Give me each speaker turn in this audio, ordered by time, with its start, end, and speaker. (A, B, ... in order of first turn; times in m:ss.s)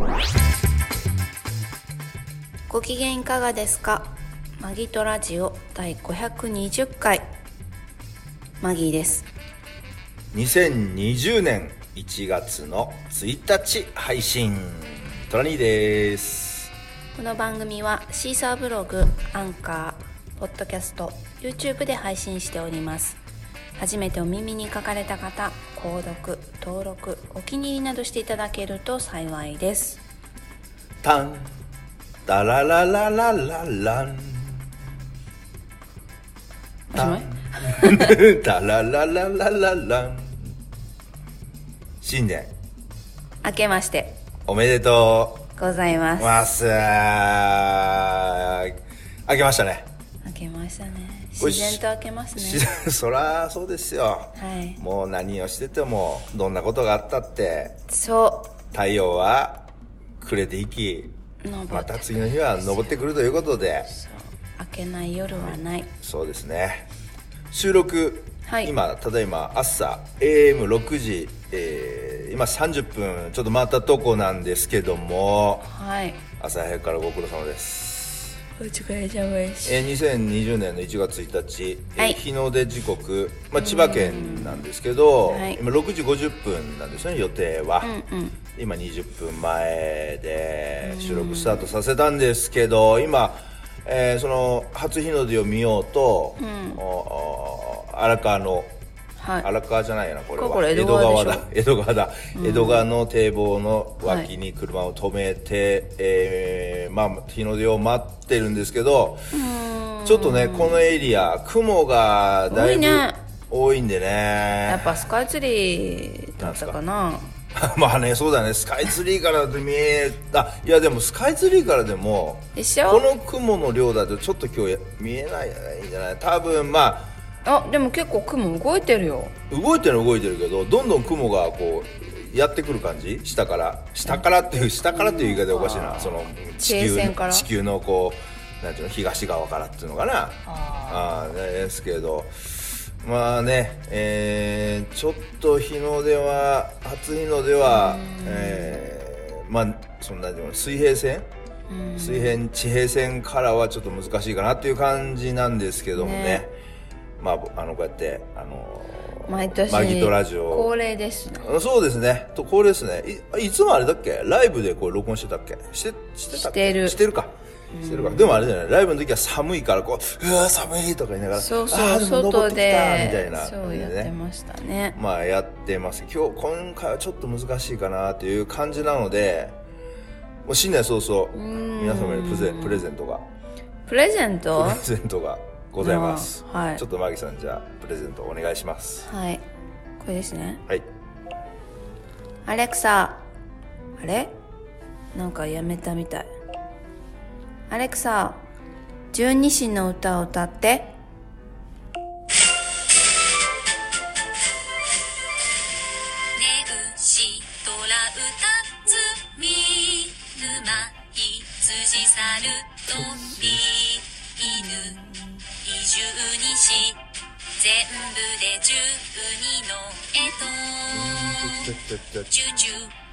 0:02.7-0:07.2 A
0:08.6-0:09.3 A
0:10.3-0:16.7 B
0:17.1-0:23.2 A
0:23.8-0:30.0 A
0:31.0-0:31.5 B
0:32.2-0:34.7 B
0:36.9-0:38.2 A
0:36.9-0:40.5 B
0:42.0-0:42.5 B
0:43.4-0:44.2 A
0:44.4-0:45.5 B
0:45.6-0:46.4 A
0:46.2-0:49.9 B
0:50.2-0:52.6 A
0:51.4-0:51.8 B
0:52.3-0:57.8 B
0:54.4-0:54.8 A
0:57.9-0:58.5 A
0:58.7-0:59.6 B
1:00.2-1:01.1 B
1:01.4-1:02.9 A
1:01.7-1:03.9 B
1:03.9-1:05.9 A
1:05.3-1:06.9 B
1:07.5-1:15.6 B
1:08.4-1:08.7 A
1:15.6-1:16.2 A
1:16.4-1:18.3 B
1:18.6-1:19.8 A
1:19.6-1:27.9 B
1:23.6-1:24.6 A
1:25.2-1:25.6 A
1:27.8-1:28.4 A
1:28.5-1:38.7 B
1:30.8-1:31.7 A
1:36.4-1:36.8 A
1:39.2-1:39.5 A
1:39.4-1:49.3 B
1:40.4-1:41.4 A
1:42.3-1:42.8 A
1:44.0-1:44.3 A
1:49.3-1:50.8 A
1:50.0-1:55.1 B
1:52.5-1:53.2 A
1:54.7-1:57.3 A
1:56.4-1:56.8 B
1:57.5-2:07.1 B
2:02.6-2:03.1 A
2:07.4-2:09.3 A
2:09.5-2:31.3 B
2:14.9-2:17.5 A
2:20.4-2:21.3 A
2:27.6-2:28.8 A
2:31.7-2:32.4 A
2:32.0-2:36.5 B
2:35.9-2:36.4 A
2:37.2-2:40.7 B
2:39.3-2:41.5 A
2:41.4-2:54.1 B
2:46.3-2:47.0 A
2:47.7-2:48.5 A
2:51.3-2:55.0 A
2:54.9-2:59.6 B
3:00.4-3:03.2 B
3:01.3-3:02.8 A
3:03.9-3:04.8 A
3:04.5-3:09.1 B
3:05.8-3:06.8 A
3:09.0-3:09.4 A
3:10.0-3:10.6 A
3:12.4-3:13.2 A
3:14.0-3:14.3 A
3:15.1-3:16.3 A
3:17.7-3:18.4 A
3:19.1-3:20.9 A
3:26.3-3:35.0 C
3:33.0-3:33.6 B
3:34.4-3:35.3 A
3:35.6-3:37.0 C
3:37.5-3:42.9 C
3:40.9-3:42.3 B